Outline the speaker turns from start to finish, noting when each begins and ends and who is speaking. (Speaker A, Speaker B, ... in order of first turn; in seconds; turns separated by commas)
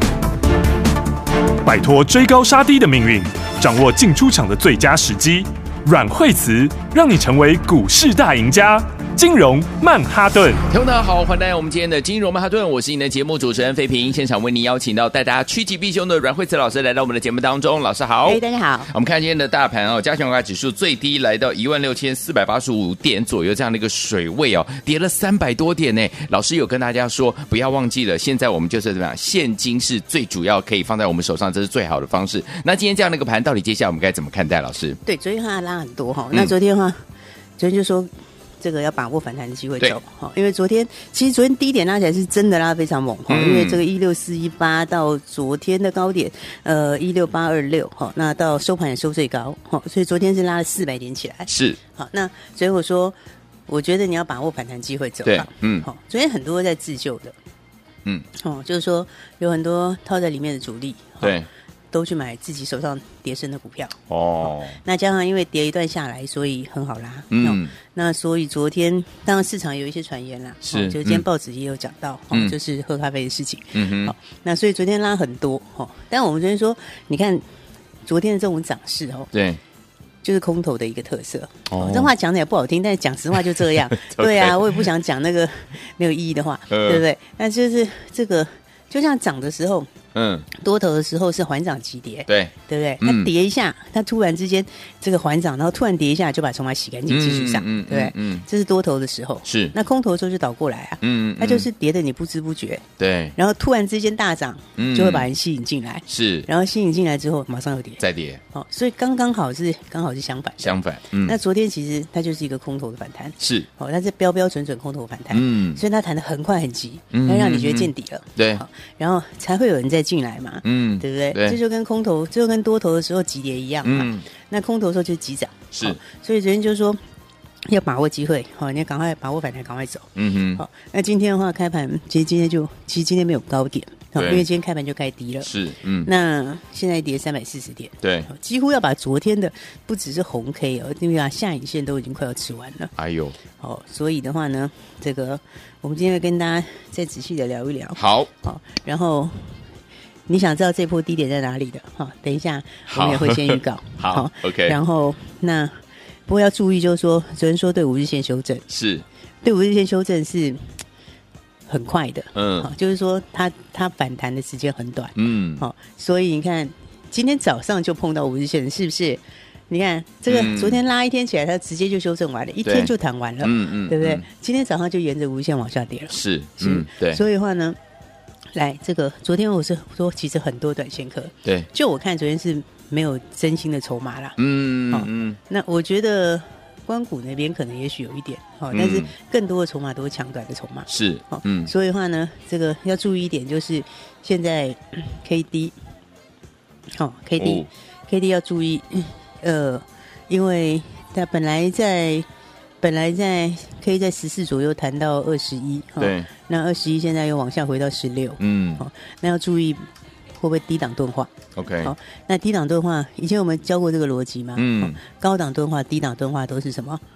Speaker A: 1.6-10.6, Speaker B: 10.7-35.0, Speaker C: 18.2-18.9, Speaker C: 35.0-37.0, Speaker C: 37.6-38.1, Speaker C: 38.6-53.2, Speaker B: 43.3-43.8, Speaker B: 51.5-51.8, Speaker C: 53.7-57.3, Speaker B: 55.2-55.9, Speaker C: 58.4-61.4, Speaker B: 61.2-61.5, Speaker C: 61.9-77.4, Speaker B: 64.1-64.8, Speaker B: 67.3-67.7, Speaker B: 70.6-71.2, Speaker B: 73.7-74.1, Speaker C: 78.1-79.3, Speaker B: 79.3-79.6, Speaker C: 80.2-89.9, Speaker B: 81.7-82.1, Speaker B: 83.5-84.8, Speaker B: 86.7-87.0, Speaker B: 90.1-90.5, Speaker C: 90.5-102.8, Speaker B: 92.3-93.3, Speaker B: 97.1-98.5, Speaker B: 99.5-99.8, Speaker B: 101.0-101.7, Speaker B: 103.0-103.3, Speaker C: 103.4-127.0, Speaker B: 104.8-105.3, Speaker B: 106.1-106.5, Speaker B: 108.0-108.4, Speaker B: 110.6-111.4, Speaker B: 113.4-113.7, Speaker B: 115.3-115.8, Speaker B: 117.1-118.6, Speaker B: 120.6-121.6, Speaker B: 123.8-124.2, Speaker B: 125.7-126.0, Speaker C: 127.7-135.5, Speaker B: 130.1-130.6, Speaker B: 134.2-134.4, Speaker B: 135.4-136.1, Speaker C: 136.1-142.9, Speaker B: 138.0-138.3, Speaker B: 142.9-143.4, Speaker C: 143.6-149.6, Speaker B: 147.9-148.3, Speaker C: 150.3-158.6, Speaker B: 152.9-154.8, Speaker B: 158.7-159.1, Speaker C: 159.4-160.6, Speaker C: 161.7-177.8, Speaker B: 162.3-162.7, Speaker B: 165.2-165.6, Speaker B: 170.3-170.8, Speaker B: 172.6-174.2, Speaker B: 176.1-177.2, Speaker C: 178.5-195.8, Speaker B: 184.4-185.4, Speaker B: 188.7-189.1, Speaker B: 190.9-191.7, Speaker C: 196.9-202.2, Speaker B: 197.4-197.7, Speaker C: 202.8-217.0, Speaker B: 206.0-206.3, Speaker B: 208.4-208.8, Speaker B: 211.6-211.9, Speaker B: 214.6-215.0